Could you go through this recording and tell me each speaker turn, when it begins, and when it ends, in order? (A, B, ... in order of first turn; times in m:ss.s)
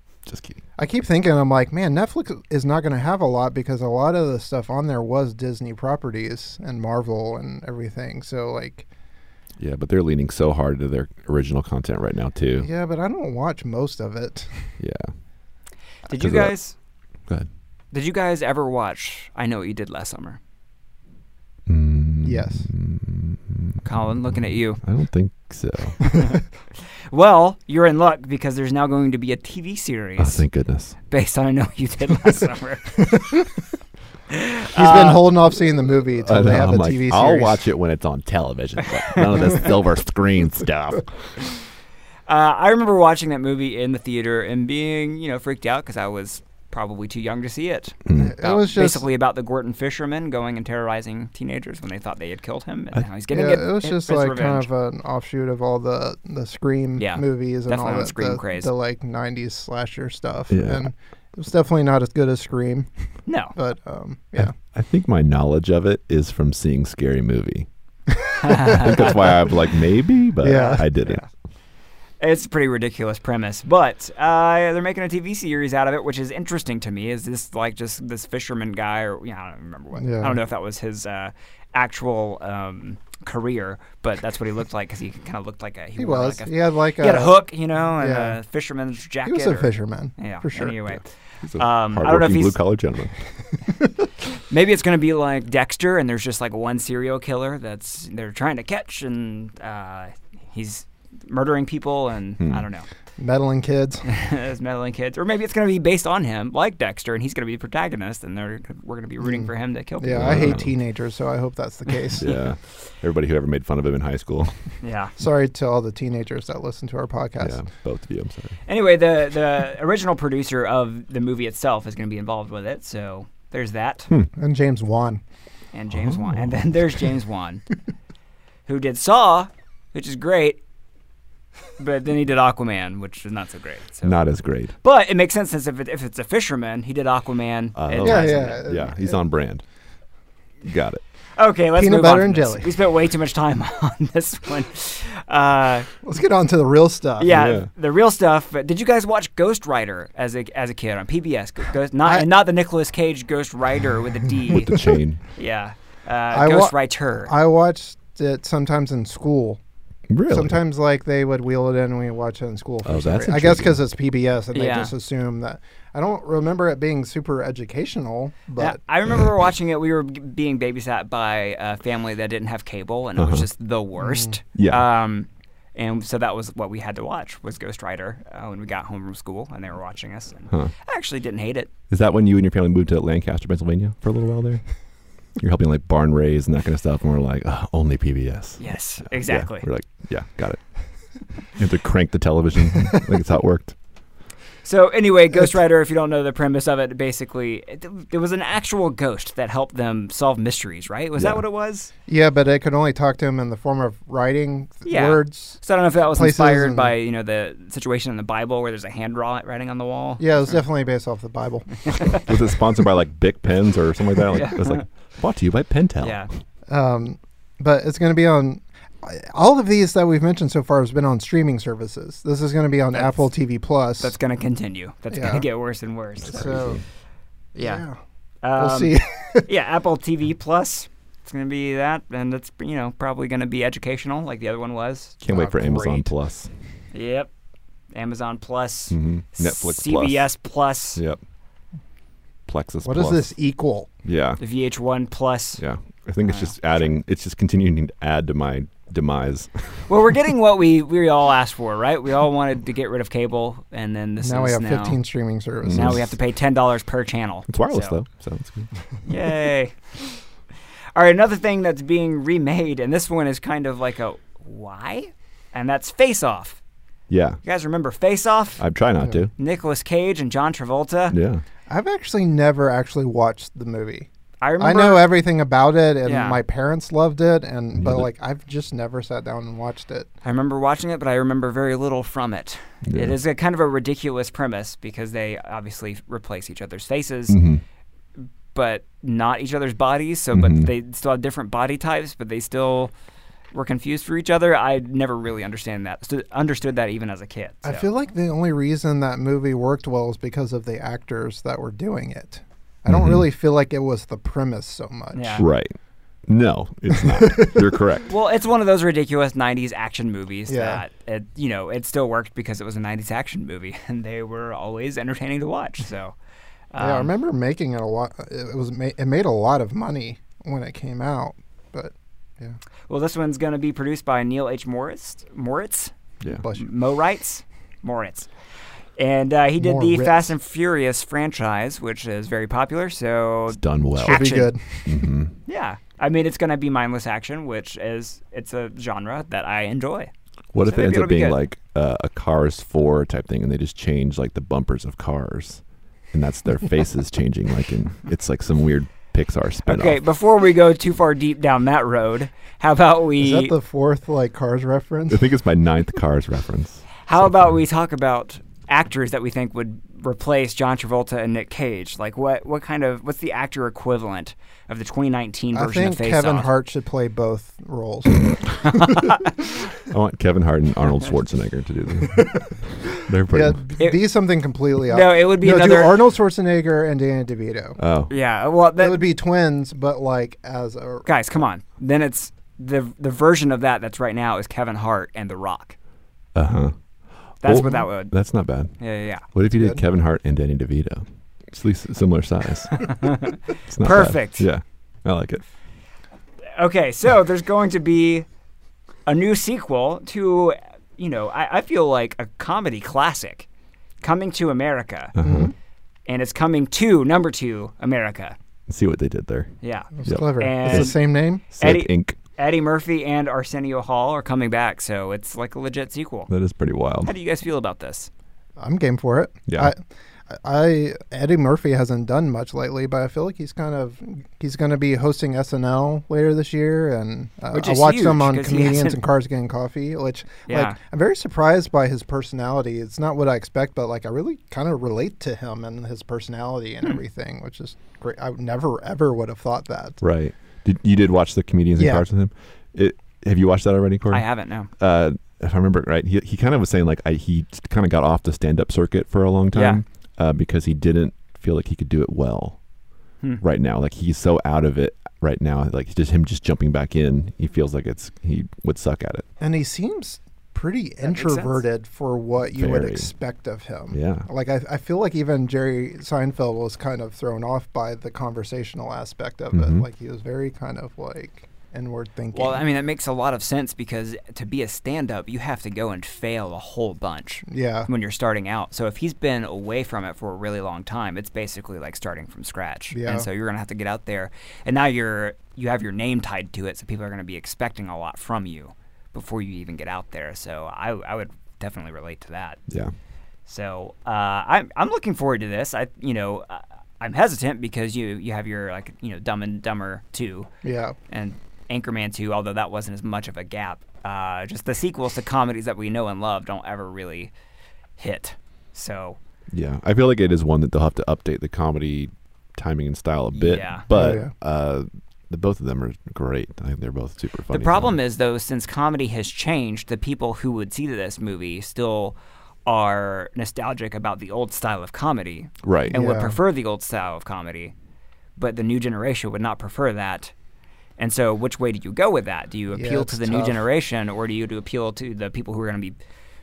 0:00.3-0:00.6 A
0:00.8-0:08.9 B
0:09.6-0:12.7 A
0:12.6-0:14.8 B
0:14.8-0:15.1 A
0:16.1-0:16.8 C
0:16.2-0:16.6 A
0:17.9-0:20.4 C
0:21.7-0:26.1 A
0:22.2-0:22.7 B
0:23.8-0:24.8 C
0:27.1-0:30.4 C
0:30.2-0:31.0 A
0:31.1-0:33.3 C
0:34.3-0:35.3 C
0:34.8-0:37.6 B
0:36.2-0:41.4 A
0:42.3-0:54.7 C
0:48.1-0:48.4 A
0:48.2-0:49.1 B
0:53.3-1:02.9 B
0:57.0-0:58.7 C
1:00.5-1:00.9 A
1:03.3-1:03.6 C
1:03.5-1:04.5 B
1:04.4-1:07.7 A
1:08.4-1:09.2 C
1:08.7-1:11.2 A
1:10.4-1:10.8 B
1:10.5-1:11.3 C
1:12.2-1:32.6 C
1:20.0-1:20.4 B
1:26.0-1:28.4 B
1:29.2-1:30.8 B
1:31.4-1:33.2 A
1:34.5-1:42.9 C
1:42.4-1:42.7 A
1:43.2-1:44.0 B
1:44.0-1:50.6 C
1:49.2-1:52.3 B
1:50.1-1:50.7 A
1:52.2-1:54.6 A
1:54.8-1:55.1 C
1:55.2-1:57.6 B
1:57.4-1:58.6 A
1:58.7-2:04.1 C
2:04.4-2:05.2 B
2:05.7-2:07.6 C
2:05.9-2:06.7 A
2:08.7-2:10.6 C
2:11.8-2:14.2 C
2:14.0-2:14.8 A
2:14.8-2:18.6 C
2:17.8-2:19.6 A
2:18.0-2:19.2 B
2:20.6-2:21.0 A
2:21.4-2:25.9 C
2:21.8-2:22.7 B
2:26.0-2:27.4 B
2:27.2-2:34.8 C
2:27.3-2:27.7 A
2:34.5-2:35.2 A
2:35.4-2:37.3 C
2:36.3-2:39.6 B
2:40.1-2:40.6 A
2:40.3-2:48.8 B
2:42.8-2:43.8 A
2:44.5-2:44.9 C
2:48.6-3:01.7 C
2:53.2-2:53.5 A
2:54.0-2:54.4 B
2:54.6-2:54.9 A
3:01.9-3:04.6 A
3:05.4-3:10.8 A
3:08.6-3:09.7 C
3:11.5-3:13.8 A
3:14.6-3:21.9 C
3:21.2-3:21.4 A
3:22.1-3:26.9 B
3:24.9-3:30.6 C
3:30.2-3:32.0 B
3:32.2-3:36.2 A
3:34.3-3:34.8 C
3:36.0-3:36.3 C
3:36.7-3:44.2 B
3:42.9-3:43.3 C
3:44.0-3:46.7 C
3:45.1-3:45.5 B
3:46.2-3:46.8 A
3:46.3-3:46.8 B
3:47.6-3:48.0 B
3:47.6-3:47.8 C
3:48.4-3:56.0 C
3:48.6-3:49.5 B
3:55.2-3:56.5 A
3:55.3-3:55.8 B
3:56.9-3:57.3 C
3:57.9-4:01.0 C
3:58.9-4:00.3 A
4:01.0-4:01.2 A
4:02.5-4:03.3 A
4:02.8-4:03.9 B
4:04.0-4:04.4 A
4:04.4-4:05.6 C
4:05.6-4:09.9 A
4:06.2-4:06.9 C
4:09.9-4:15.0 C
4:14.2-4:16.1 B
4:15.6-4:16.0 A
4:15.7-4:18.0 C
4:17.5-4:18.7 A
4:19.1-4:19.8 C
4:21.0-4:26.6 C
4:27.1-4:27.4 A
4:27.4-4:28.6 C
4:28.6-4:29.3 A
4:29.4-4:31.2 C
4:31.1-4:31.4 A
4:31.7-4:34.1 B
4:34.4-4:35.1 C
4:34.6-4:40.1 B
4:36.0-4:36.4 C
4:37.8-4:38.1 A
4:40.2-4:47.4 C
4:42.9-4:43.2 A
4:47.3-4:47.6 A
4:48.5-4:52.9 C
4:50.3-4:50.7 A
4:53.5-4:57.9 C
4:57.6-5:05.5 B
5:02.9-5:03.2 A
5:05.1-5:05.4 C
5:05.4-5:05.7 A
5:06.3-5:08.1 A
5:07.0-5:07.6 B
5:08.1-5:16.2 C
5:10.5-5:10.8 B
5:16.7-5:17.1 C
5:16.8-5:22.6 B
5:22.9-5:25.9 C
5:26.3-5:26.7 B
5:26.5-5:28.3 C
5:29.0-5:34.5 C
5:29.6-5:30.4 B
5:33.5-5:35.4 A
5:34.0-5:35.0 B
5:35.5-5:40.1 C
5:40.5-5:45.6 A
5:40.6-5:41.4 C
5:46.1-5:50.0 A
5:49.7-5:53.6 C
5:53.2-5:55.3 B
5:55.1-5:57.5 A
5:57.1-6:06.5 C
6:05.5-6:09.0 B
6:09.8-6:13.7 A
6:12.2-6:12.5 B
6:13.3-6:17.8 B
6:14.9-6:16.0 C
6:17.8-6:18.1 A
6:18.1-6:19.0 C
6:18.8-6:21.1 B
6:21.1-6:25.8 C
6:26.4-6:26.7 A
6:27.4-6:33.0 A
6:27.4-6:28.1 C
6:28.8-6:29.2 C
6:29.5-6:29.8 B
6:32.8-6:34.5 C
6:33.7-6:35.4 A
6:36.6-6:38.3 C
6:39.1-6:43.5 C
6:44.0-6:45.2 C
6:45.2-6:45.5 A
6:45.2-6:45.5 B
6:46.1-6:48.4 C
6:48.7-6:49.5 A
6:49.6-6:56.3 C
6:50.0-6:51.4 B
6:50.0-6:51.0 A
6:51.5-6:52.2 A
6:56.3-6:57.1 A
6:57.0-6:58.1 C
6:58.6-7:20.0 B
7:07.5-7:09.0 C
7:10.5-7:10.8 C
7:20.0-7:32.6 A
7:21.8-7:22.0 B
7:24.1-7:24.7 C
7:29.5-7:29.8 C
7:33.4-7:39.3 A
7:39.4-7:52.6 B
7:41.0-7:41.6 C
7:42.6-7:43.1 A
7:43.9-7:44.3 A
7:49.5-7:49.8 A
7:52.3-8:12.6 C
7:57.5-7:57.9 B
8:02.9-8:03.3 B
8:13.5-8:20.5 C
8:20.6-8:21.0 B
8:21.1-8:27.3 C
8:28.0-8:29.2 C
8:29.5-8:38.0 A
8:33.3-8:33.9 C
8:33.9-8:34.3 B
8:37.5-8:47.7 C
8:45.6-8:45.9 A
8:45.9-8:46.4 B
8:48.4-8:50.3 C
8:51.0-8:56.0 C
8:52.7-8:53.6 B